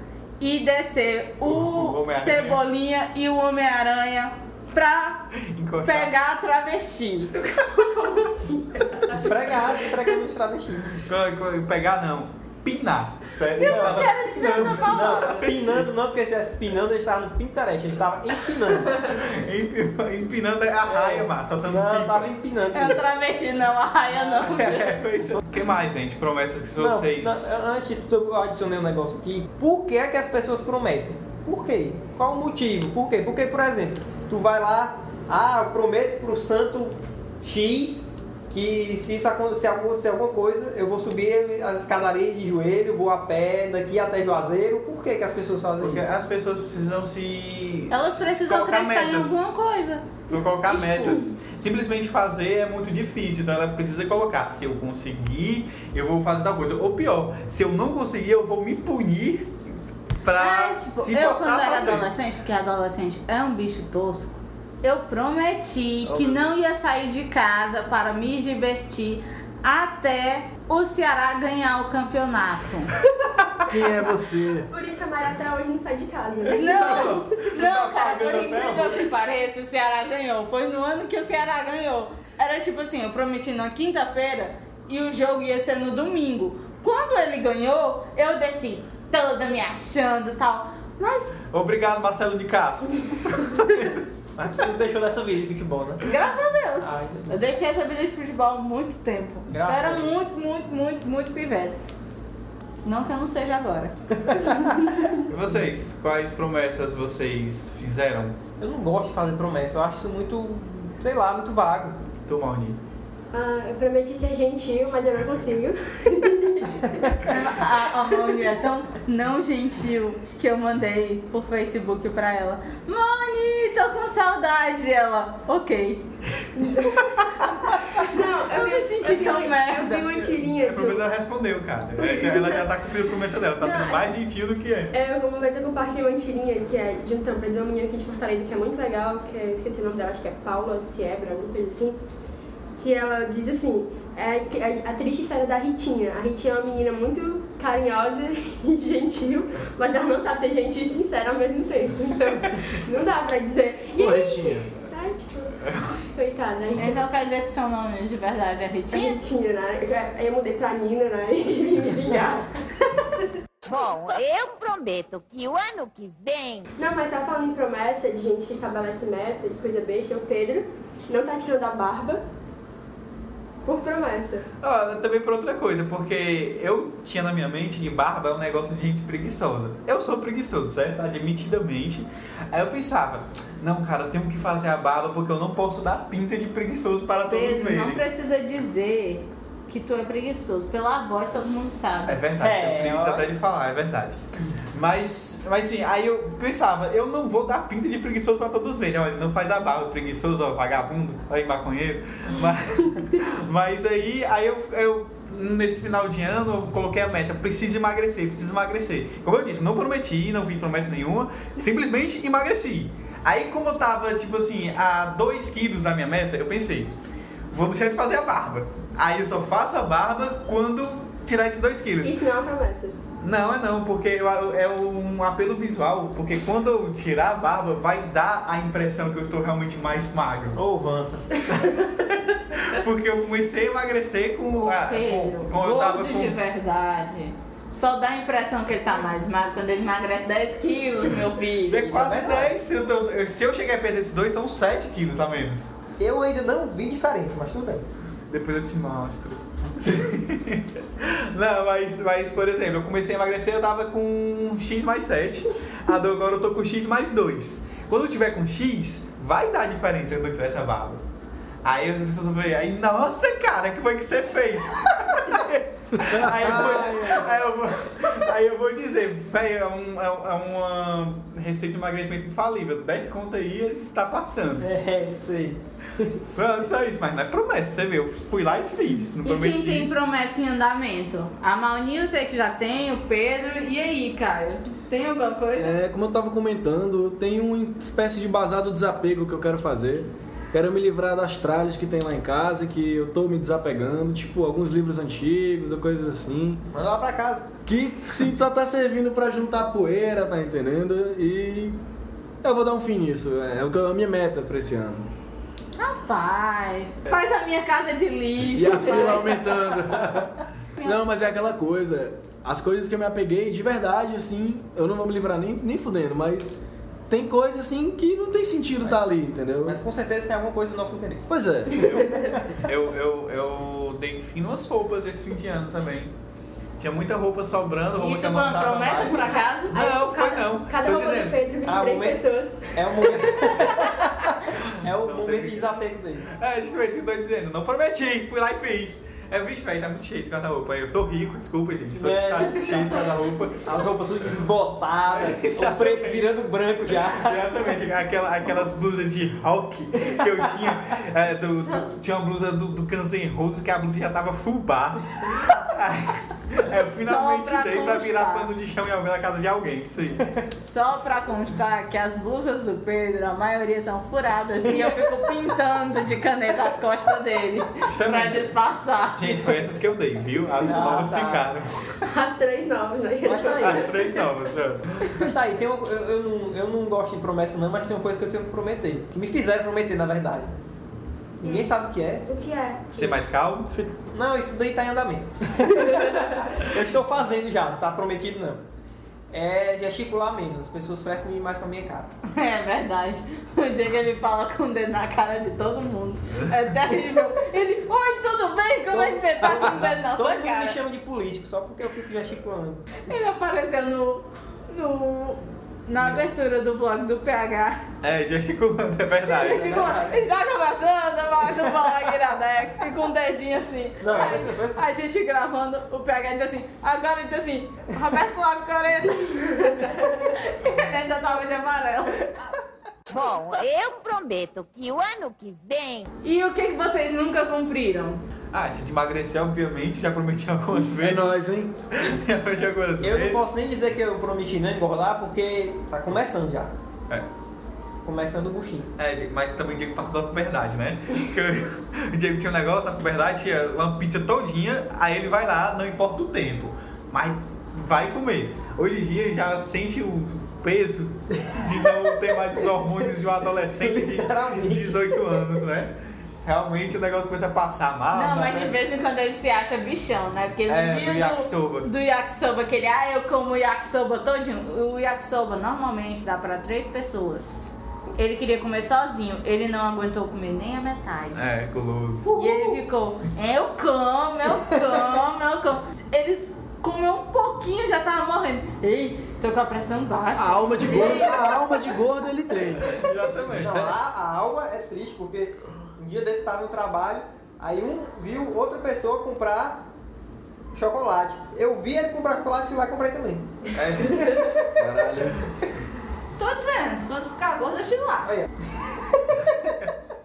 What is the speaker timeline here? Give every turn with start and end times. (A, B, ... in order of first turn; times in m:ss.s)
0:00.4-0:05.3 A
0:01.4-0:02.6 B
0:05.4-0:06.1 B
0:05.8-0:07.3 A
0:07.4-0:09.8 C
0:09.1-0:11.0 D
0:10.9-0:15.9 B
0:13.6-0:15.4 A
0:13.6-0:19.1 D
0:18.9-0:22.3 B
0:20.8-0:23.0 D
0:22.7-0:25.0 A
0:24.1-0:27.5 B
0:26.8-0:46.1 D
0:45.8-0:49.4 B
0:47.9-0:51.3 A
0:50.3-0:59.6 B
1:00.2-1:02.1 B
1:00.4-1:13.0 A
1:13.7-1:14.7 E
1:14.7-1:17.4 C
1:16.5-1:19.1 B
1:16.5-1:31.4 A
1:31.5-1:34.1 B
1:34.4-1:36.0 D
1:36.0-1:41.8 A
1:36.8-1:37.4 D
1:39.5-1:40.2 D
1:42.8-1:43.9 A
1:44.2-1:44.7 D
1:45.2-1:48.4 B
1:48.6-1:52.0 D
1:52.3-1:52.8 B
1:53.3-1:57.3 C
1:57.2-2:06.1 A
2:06.5-2:11.1 C
2:08.1-2:10.1 A
2:10.1-2:14.9 B
2:12.0-2:12.6 C
2:13.6-2:14.1 C
2:14.9-2:22.0 C
2:22.8-2:37.0 C
2:34.0-2:34.7 E
2:36.8-2:39.2 A
2:38.9-2:43.3 C
2:43.6-2:46.7 F
2:46.8-2:52.2 C
2:53.6-2:54.5 C
2:54.6-3:08.0 B
3:07.3-3:12.2 A
3:12.1-3:14.2 B
3:12.4-3:13.3 D
3:14.7-3:36.9 B
3:37.5-3:42.2 B
3:42.0-3:43.0 C
3:43.2-3:50.6 B
3:50.5-3:51.4 D
3:51.7-3:56.4 B
3:54.5-4:02.1 A
4:01.7-4:05.7 B
4:01.9-4:02.5 D
4:06.0-4:07.8 D
4:08.3-4:21.0 B
4:21.6-4:34.7 B
4:26.3-4:27.0 E
4:26.3-4:27.3 D
4:34.6-4:36.1 D
4:36.4-4:39.9 B
4:39.2-4:45.8 A
4:45.5-4:56.6 E
4:56.7-4:57.5 D
4:57.6-5:01.8 E
5:02.4-5:05.1 E
5:05.8-5:09.4 A
5:08.5-5:16.6 E
5:08.8-5:09.4 C
5:17.1-5:19.8 E
5:19.6-5:21.2 D
5:21.3-5:21.9 E
5:21.7-5:22.4 C
5:21.9-5:26.1 B
5:26.8-5:31.4 B
5:28.0-5:29.8 A
5:29.7-5:33.7 C
5:31.6-5:36.3 D
5:34.6-5:35.7 B
5:36.3-5:43.7 B
5:41.9-5:43.1 D
5:43.6-5:47.6 D
5:45.1-5:46.3 B
5:46.9-6:00.3 B
5:51.5-5:51.8 A
5:56.7-5:58.5 A
6:00.5-6:09.2 A
6:07.8-6:08.5 B
6:09.1-6:12.1 B
6:10.6-6:11.5 D
6:12.0-6:14.2 C
6:13.2-6:13.9 D
6:13.5-6:15.2 B
6:15.1-6:20.5 D
6:21.4-6:22.2 D
6:21.4-6:21.7 C
6:22.2-6:23.2 C
6:22.9-6:23.7 B
6:24.1-6:28.6 D
6:25.8-6:26.4 C
6:29.3-6:32.2 D
6:32.2-6:40.8 A
6:38.9-6:43.1 D
6:43.0-6:47.8 A
6:48.0-6:50.0 B
6:49.3-7:02.3 A
6:49.5-6:50.2 D
6:54.0-6:54.9 D
6:59.5-7:00.2 C
7:06.2-7:08.2 A
7:08.5-7:13.4 B
7:10.8-7:11.8 E
7:13.0-7:16.7 D
7:18.0-7:18.9 D
7:19.0-7:38.7 B
7:33.7-7:35.5 D
7:38.1-7:47.5 A
7:40.7-7:41.9 B
7:48.2-7:51.4 A
7:51.3-7:52.3 B
7:52.2-8:01.9 A
7:52.3-7:52.8 C
8:00.4-8:03.9 E
8:02.8-8:03.9 B
8:03.5-8:09.8 D
8:10.7-8:14.6 D
8:13.8-8:14.3 B
8:14.8-8:15.5 E
8:16.4-8:18.4 A
8:18.3-8:19.5 D